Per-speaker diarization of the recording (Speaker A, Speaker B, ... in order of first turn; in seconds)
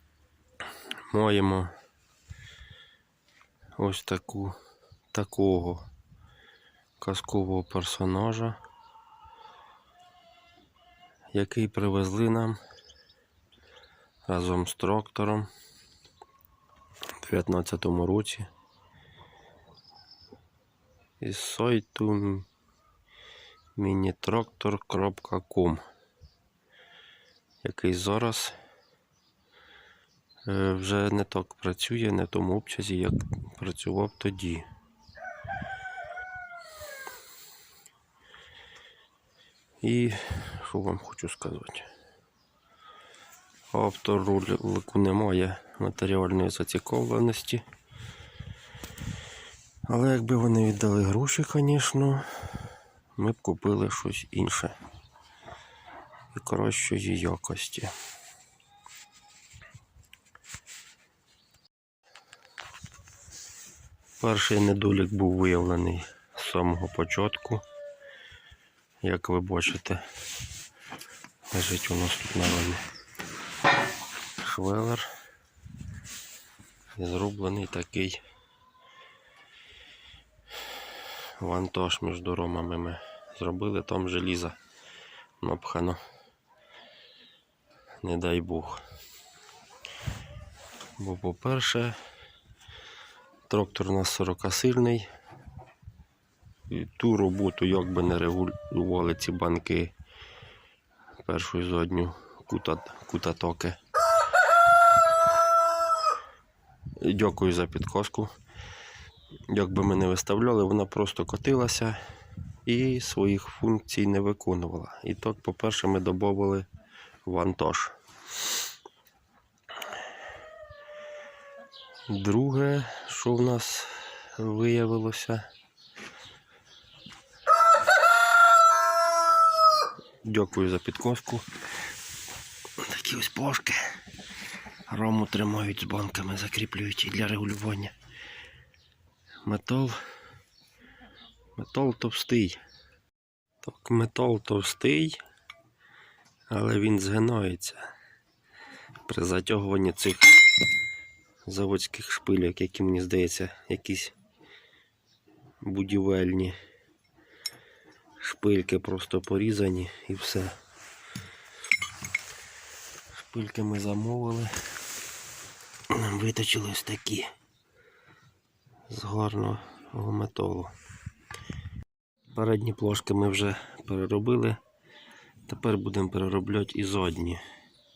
Speaker A: 1.1-1.7, 3.8-4.5, 5.1-5.9, 7.0-8.6, 11.3-12.6, 14.2-15.5, 17.2-18.5, 21.2-22.5, 23.8-25.8, 27.6-28.6, 30.5-34.7, 39.8-41.9, 43.7-47.6, 49.9-54.8, 56.3-57.9, 64.2-67.6, 69.0-70.0, 71.5-72.8, 74.4-75.1, 77.0-78.2, 81.4-84.6, 85.4-86.0, 88.0-88.8, 91.0-92.0, 93.5-95.1, 96.7-99.9, 101.2-103.8, 107.0-108.3, 109.5-112.0, 112.6-116.7, 117.2-118.0, 122.1-125.4, 130.2-131.4, 132.8-134.0, 134.9-137.9, 139.4-140.0, 141.6-142.6, 143.6-145.2, 146.5-147.8, 149.1-150.4, 151.4-154.2, 155.6-156.6, 158.2-160.6, 163.2-164.5, 165.9-167.3, 168.9-170.7, 172.3-174.6, 175.4-177.4